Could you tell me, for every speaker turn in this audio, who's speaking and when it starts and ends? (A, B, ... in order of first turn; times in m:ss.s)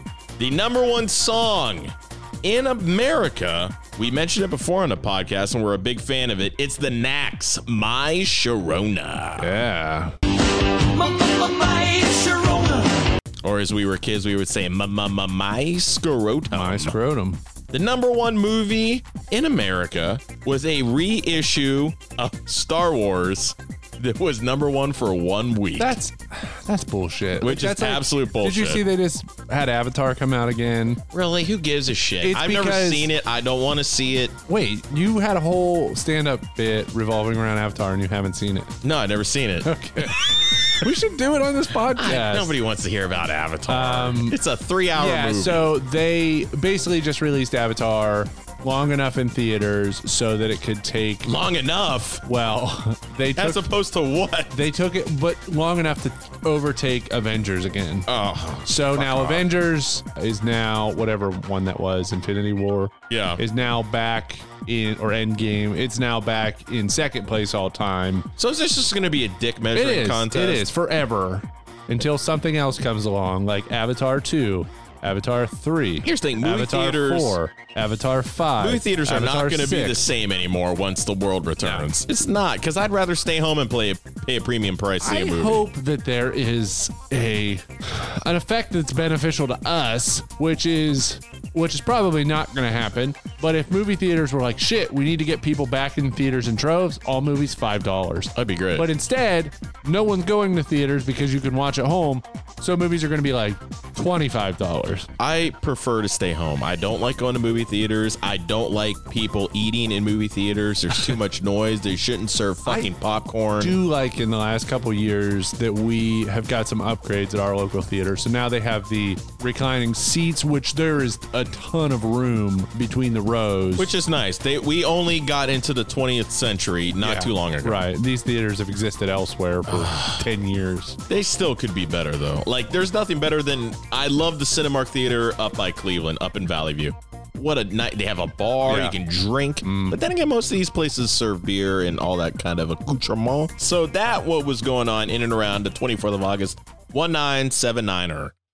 0:00.4-0:09.5 A
0:09.4-0:10.1 B
0:10.9-0:13.0 C
0:13.4-0:17.0 A
0:16.5-0:17.4 B
0:17.7-0:26.0 A
0:25.8-0:31.0 B
0:27.4-0:28.8 A
0:31.1-0:34.3 A
0:32.2-0:33.1 B
0:34.5-0:38.7 B
0:38.8-0:40.7 A
0:39.6-0:42.5 B
0:41.9-0:45.7 A
0:43.7-0:44.4 B
0:44.9-0:51.3 B
0:51.2-0:52.2 A
0:52.2-0:53.6 B
0:53.3-0:54.6 A
0:54.5-0:58.1 B
0:58.1-0:59.5 A
0:58.7-1:08.3 B
1:03.1-1:03.4 A
1:08.4-1:10.7 A
1:09.7-1:20.0 B
1:16.0-1:17.4 A
1:18.6-1:25.6 A
1:21.6-1:21.9 B
1:25.0-1:45.1 B
1:38.3-1:38.8 A
1:45.2-1:53.8 A
1:53.6-2:03.9 B
2:03.8-2:07.8 A
2:07.0-2:11.0 B
2:09.7-2:10.3 A
2:11.1-2:28.3 A
2:18.7-2:19.0 B
2:19.6-2:20.0 B